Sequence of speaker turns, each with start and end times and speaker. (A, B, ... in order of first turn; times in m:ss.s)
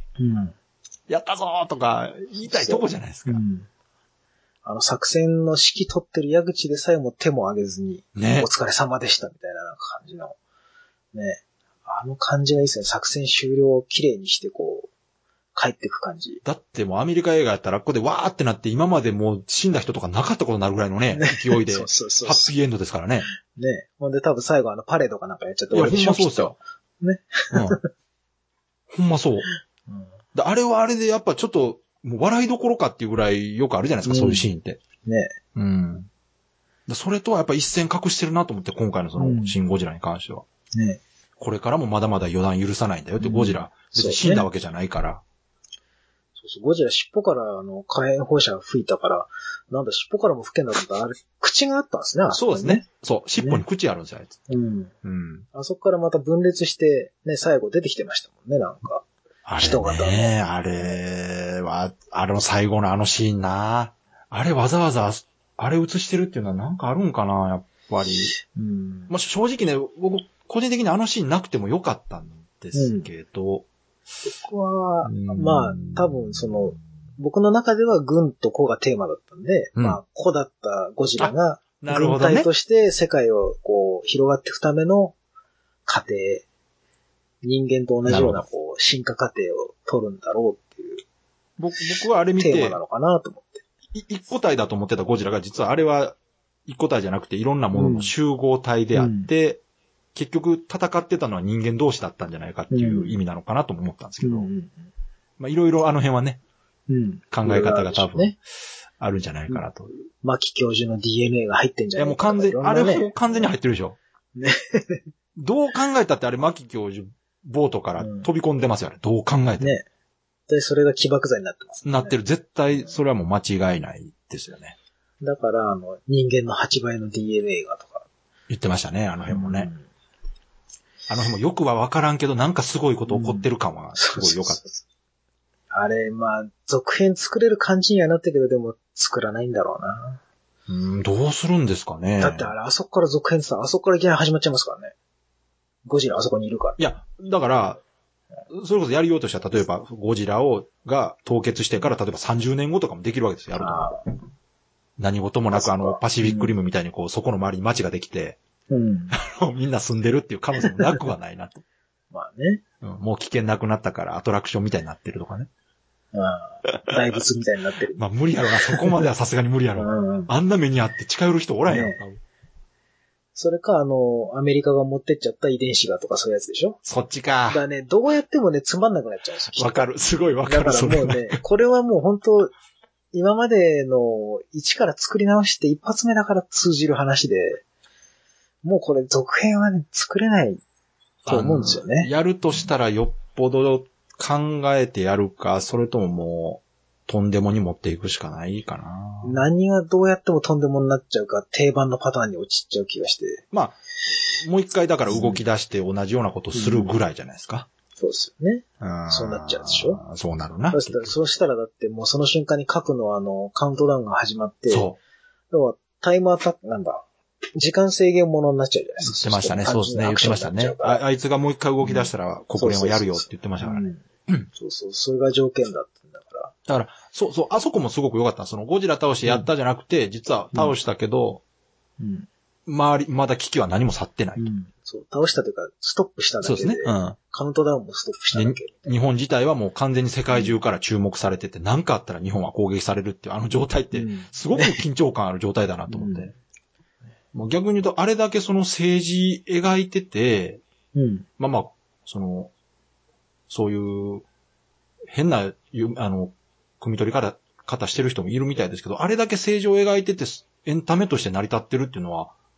0:00.2-0:00.5 A
0:01.1-0:03.4 B
0:02.4-0:03.7 A
0:04.6-0:10.4 A
0:08.1-0:08.5 B
0:11.1-0:14.9 A
0:15.5-0:16.4 A
0:16.4-0:23.3 B
0:21.1-0:22.5 A
0:23.4-0:27.9 A
0:25.7-0:26.5 B
0:27.5-0:27.8 B
0:28.9-0:29.5 B
0:29.9-0:30.1 A
0:30.3-0:34.8 B
0:34.0-0:34.5 A
0:35.0-0:35.4 A
0:35.5-0:36.1 B
0:36.9-0:40.4 B
0:39.2-0:39.5 A
0:40.7-0:41.0 A
0:41.4-0:45.2 B
0:43.2-0:44.5 A
0:46.4-0:52.8 A
0:52.3-0:54.4 B
0:53.4-0:53.6 A
0:54.5-0:54.9 A
0:55.0-0:55.4 B
0:55.5-0:59.0 A
0:59.4-1:08.3 B
0:59.6-1:00.9 A
1:08.4-1:09.1 A
1:09.1-1:13.6 B
1:12.7-1:13.1 A
1:14.2-1:25.2 A
1:15.0-1:16.6 B
1:21.2-1:22.5 B
1:25.8-1:26.4 A
1:27.4-1:31.0 A
1:28.1-1:28.4 B
1:31.6-1:32.8 B
1:32.4-1:33.6 A
1:33.9-1:39.6 B
1:37.7-1:38.1 A
1:38.9-1:39.3 A
1:40.1-1:44.5 B
1:42.7-1:43.2 A
1:44.2-1:44.9 A
1:45.4-1:46.4 B
1:46.9-1:48.4 A
1:47.3-1:48.4 B
1:49.0-1:49.9 B
1:50.2-1:53.5 A
1:52.0-1:54.0 B
1:54.4-1:55.0 A
1:55.4-1:59.7 B
1:58.0-1:58.3 A
1:59.6-1:59.8 A
2:00.5-2:02.2 A
2:01.8-2:04.8 B
2:02.7-2:03.0 A
2:05.2-2:08.0 A
2:08.5-2:09.7 B
2:09.3-2:09.8 A
2:11.1-2:14.6 B
2:13.1-2:14.8 A
2:15.7-2:20.2 A
2:20.7-2:22.5 B
2:22.2-2:24.9 A
2:25.8-2:26.8 A
2:26.8-2:27.8 B
2:28.5-2:34.0 B
2:33.6-2:34.0 A
2:35.0-2:38.4 B
2:35.5-2:36.5 A
2:38.7-2:39.2 A
2:39.1-2:41.6 B
2:42.1-2:42.6 A
2:42.8-2:45.5 B
2:46.1-2:49.0 A
2:47.9-2:52.2 B
2:49.8-2:50.3 A
2:51.7-2:52.0 A
2:53.4-2:56.8 A
2:56.8-2:57.6 B
2:57.5-2:59.8 A
2:59.5-3:01.4 B
3:00.4-3:02.5 A
3:03.1-3:07.6 A
3:08.6-3:10.6 A
3:11.2-3:19.4 B
3:11.3-3:12.1 A
3:19.2-3:23.4 A
3:23.5-3:23.8 B
3:24.4-3:27.7 B
3:25.0-3:25.4 A
3:26.5-3:27.0 A
3:28.0-3:30.0 A
3:28.8-3:31.1 B
3:30.7-3:34.9 A
3:34.7-3:35.0 B
3:35.5-3:41.0 A
3:39.0-3:44.5 B
3:41.8-3:46.5 A
3:46.7-3:51.4 B
3:52.0-3:52.3 A
3:52.7-3:54.5 B
3:54.4-3:58.9 A
3:56.4-3:57.2 B
3:58.3-4:06.3 B
4:00.3-4:00.6 A
4:03.9-4:04.8 A
4:05.9-4:06.3 A
4:07.3-4:10.6 B
4:10.9-4:11.3 A
4:11.4-4:12.5 B
4:13.5-4:14.2 B
4:15.1-4:22.3 B